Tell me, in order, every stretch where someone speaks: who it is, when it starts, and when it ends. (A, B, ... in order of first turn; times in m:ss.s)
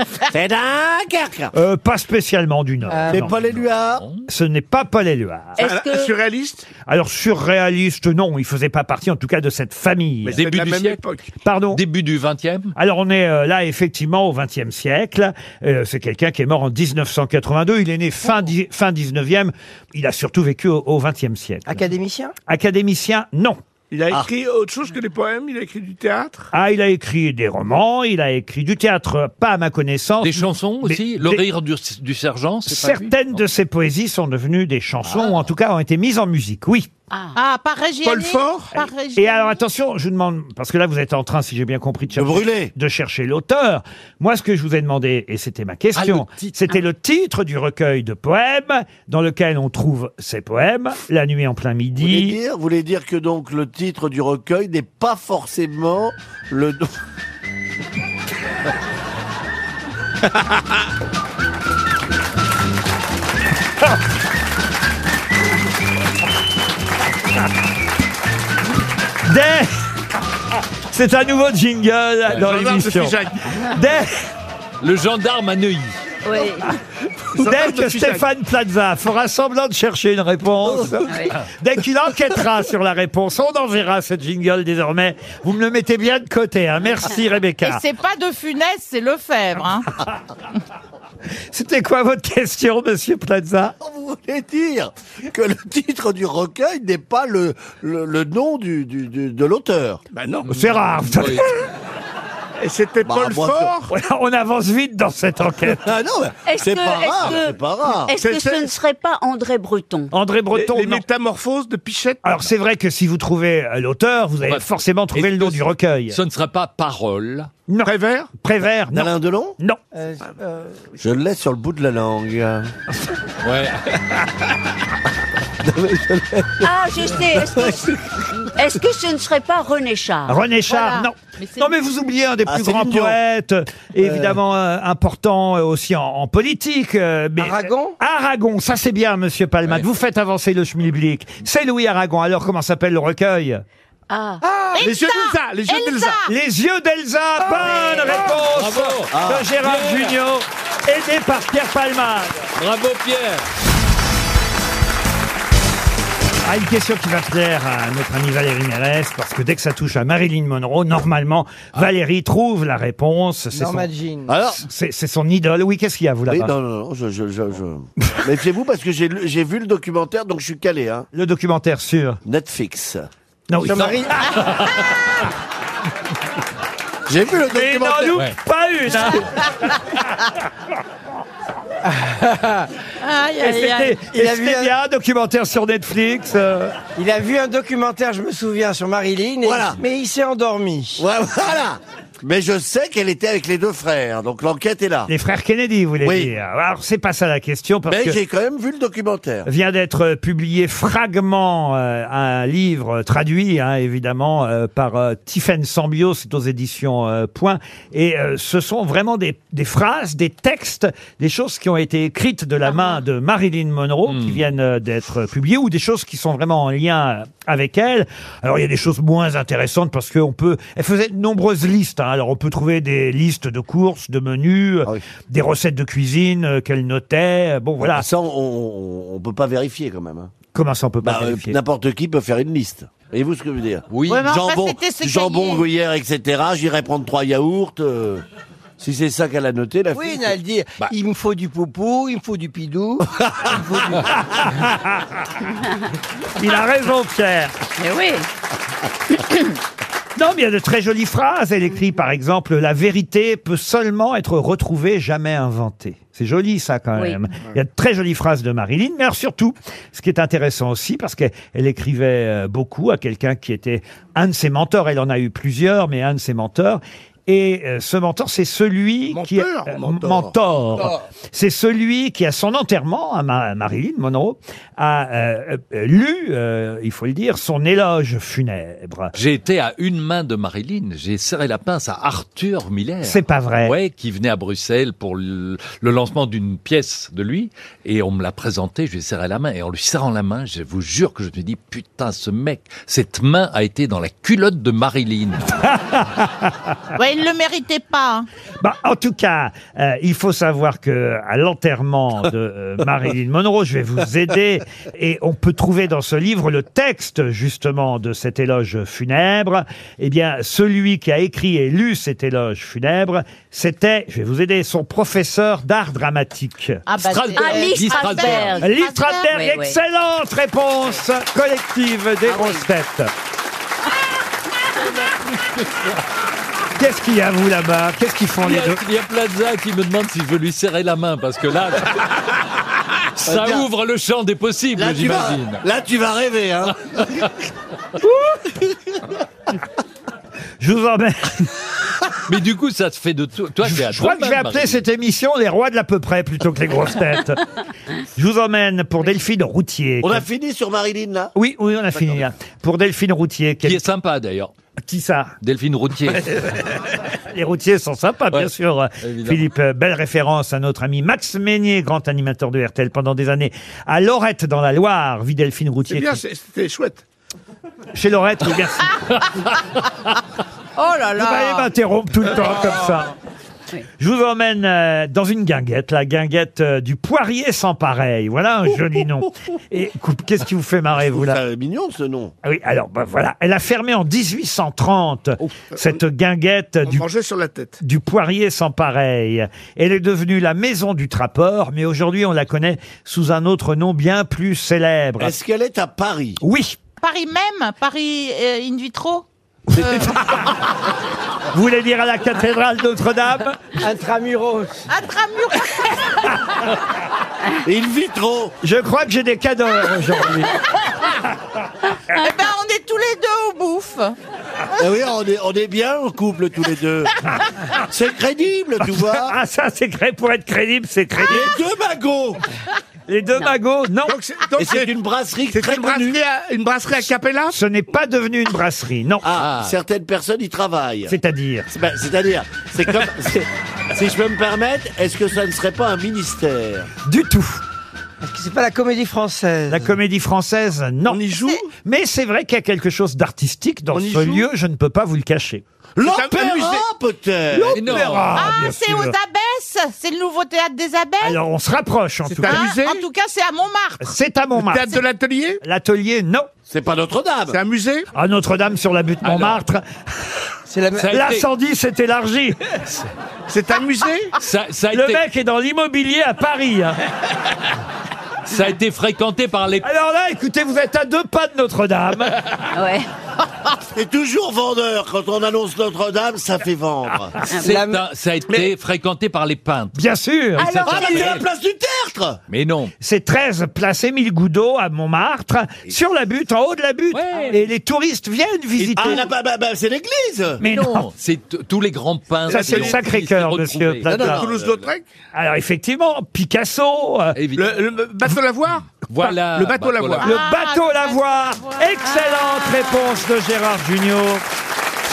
0:00.3-0:01.5 A
0:01.5-0:03.3 B
0:02.9-0:03.3 C
0:03.1-0:04.0 A
0:03.3-0:04.3 D
0:04.3-0:05.6 B
0:05.6-0:06.1 E
0:05.6-0:06.7 F
0:06.8-0:10.4 B
0:10.2-0:11.2 F
0:10.4-0:11.0 D
0:11.4-0:11.8 B
0:11.7-0:12.7 D
0:12.8-0:21.8 B
0:21.7-0:22.3 C
0:22.5-0:23.6 B
0:23.9-0:26.5 F
0:26.5-0:31.4 B
0:30.2-0:33.4 D
0:32.6-0:36.9 B
0:35.1-0:35.4 D
0:37.1-0:37.4 E
0:37.3-0:39.6 G
0:38.0-0:38.7 F
0:39.1-0:52.4 B
0:42.1-0:42.7 A
0:45.9-0:46.6 D
0:52.0-0:56.9 A
1:09.2-1:09.9 B
1:10.9-1:14.1 B
1:12.3-1:13.6 F
1:14.8-1:16.0 D
1:16.2-1:16.7 E
1:17.3-1:18.2 F
1:17.4-1:27.8 B
1:21.1-1:21.3 E
1:27.6-1:30.0 G
1:31.5-1:33.8 B
1:33.8-1:40.0 A
1:40.1-1:40.5 F
1:40.4-1:41.5 D
1:40.5-1:41.6 B
1:42.6-1:43.9 F
1:43.0-1:43.8 A
1:43.9-1:45.9 B
1:45.7-1:48.2 A
1:46.4-1:50.1 E
1:48.2-1:48.7 F
1:50.1-1:51.0 B
1:50.5-1:52.2 F
1:52.2-1:56.2 B
1:54.4-1:57.5 D
1:57.7-1:59.8 B
1:57.8-1:58.3 F
1:58.9-1:59.6 A
1:59.9-2:00.9 C
2:01.0-2:02.7 A
2:03.4-2:03.9 D
2:05.6-2:06.6 A
2:06.6-2:10.4 E
2:10.3-2:23.6 B
2:10.7-2:11.7 G
2:12.4-2:13.2 A
2:14.0-2:14.4 A
2:17.4-2:17.9 C
2:24.1-2:24.4 E
2:24.4-2:24.8 C
2:24.7-2:26.3 G
2:24.8-2:26.2 F
2:26.2-2:32.5 B
2:28.5-2:30.2 D
2:29.1-2:29.5 A
2:32.6-2:33.4 D
2:36.4-2:43.9 B
2:43.5-2:44.3 C
2:44.3-2:44.6 A
2:44.6-2:46.5 B
2:46.3-2:51.1 A
2:51.1-2:52.2 B
2:52.2-2:53.1 A
2:53.5-2:54.4 B
2:53.6-2:54.2 C
2:57.1-2:58.2 A
2:57.5-2:59.4 B
3:01.8-3:02.7 C
3:03.0-3:04.0 G
3:03.4-3:06.8 B
3:04.1-3:04.7 C
3:07.0-3:11.0 C
3:09.4-3:09.8 A
3:11.0-3:15.1 A
3:15.1-3:18.2 B
3:16.0-3:16.3 A
3:17.9-3:19.5 A
3:19.4-3:48.1 B
3:34.1-3:34.4 D
3:47.8-3:50.3 A
3:50.5-3:51.6 B
3:51.0-3:58.2 A
3:53.9-3:54.3 D
3:54.0-3:55.6 G
3:58.8-4:00.3 A
3:59.9-4:04.2 C
4:03.2-4:03.5 A
4:04.2-4:05.2 B
4:06.4-4:07.6 B
4:07.8-4:08.2 E
4:10.2-4:39.1 B
4:29.1-4:30.3 F
4:39.1-4:55.6 D
4:43.0-4:43.7 B
4:55.6-4:56.5 B
4:56.9-4:58.3 G
4:58.6-5:16.8 B
5:16.9-5:19.6 G
5:17.0-5:18.6 D
5:17.4-5:18.7 E
5:18.6-5:23.1 B
5:19.3-5:19.7 E
5:22.3-5:22.6 E
5:26.7-5:28.8 B
5:28.4-5:32.2 D
5:33.2-5:35.6 D
5:33.2-5:33.7 A
5:34.8-5:36.9 A
5:40.6-5:41.5 B
5:42.3-5:44.8 D
5:43.6-5:47.4 B
5:48.2-5:50.2 B
5:50.0-5:51.3 A
5:51.3-5:53.8 B
5:53.6-5:54.5 D
5:54.8-5:55.4 B
5:55.4-5:56.7 D
5:57.3-6:06.2 B
5:59.0-5:59.4 D
6:05.9-6:07.0 F
6:07.9-6:09.0 B
6:10.8-6:11.7 G
6:11.1-6:13.1 B
6:14.0-6:21.4 B
6:21.0-6:22.3 A
6:22.4-6:27.0 B
6:26.8-6:27.8 F
6:27.8-6:35.3 B
6:35.2-6:36.4 A
6:36.4-6:36.8 B
6:37.0-6:40.5 G
6:39.8-6:40.2 B
6:41.5-6:43.6 B
6:43.8-6:44.8 C
6:44.9-6:46.3 G
6:47.6-6:48.6 A
6:48.6-6:50.6 B
6:52.1-6:54.2 G
6:54.8-6:57.1 A
6:57.9-6:59.3 A
6:58.8-7:01.6 B
7:01.3-7:02.4 A
7:03.1-7:04.2 B
7:04.0-7:04.9 F
7:04.6-7:06.2 A
7:05.5-7:07.6 F
7:07.5-7:09.3 B
7:09.2-7:11.1 A
7:09.4-7:09.7 D
7:11.1-7:11.7 B
7:11.7-7:16.9 A
7:17.0-7:17.6 B
7:18.2-7:19.9 C
7:19.7-7:25.6 B
7:21.1-7:21.7 F
7:23.9-7:24.5 F
7:26.0-7:27.8 A
7:26.0-7:26.8 F
7:27.5-7:29.1 B
7:27.7-7:28.4 D
7:28.2-7:31.4 G
7:31.2-7:32.6 B
7:32.3-7:33.0 F
7:32.4-7:34.1 G
7:34.0-7:35.0 B
7:34.6-7:35.6 F
7:35.6-7:36.5 B
7:36.7-7:37.6 A
7:37.5-7:38.1 F
7:38.1-7:39.8 B
7:39.2-7:39.6 D
7:40.7-7:41.1 C
7:41.0-7:41.4 D
7:41.1-7:42.7 B
7:43.5-7:44.3 F
7:44.4-7:45.2 D
7:44.9-7:47.0 B
7:48.4-7:49.8 D
7:49.8-7:52.4 B
7:52.7-7:53.1 E
7:53.9-7:57.4 A
7:57.5-7:57.7 E
7:57.5-7:58.0 C
7:57.5-8:00.0 D
7:59.9-8:01.4 B
8:00.5-8:01.4 D
8:00.8-8:02.4 A
8:02.5-8:02.9 D
8:03.0-8:09.3 B
8:07.1-8:07.6 D
8:08.8-8:10.6 A
8:10.6-8:11.1 B
8:10.6-8:14.4 D
8:12.5-8:13.0 F
8:12.5-8:14.4 B
8:14.1-8:14.9 A
8:14.2-8:15.0 F
8:15.3-8:17.4 B
8:17.4-8:17.8 D
8:17.6-8:18.9 F
8:18.9-8:20.3 D
8:19.5-8:20.3 F
8:20.2-8:23.2 G
8:20.2-8:24.4 B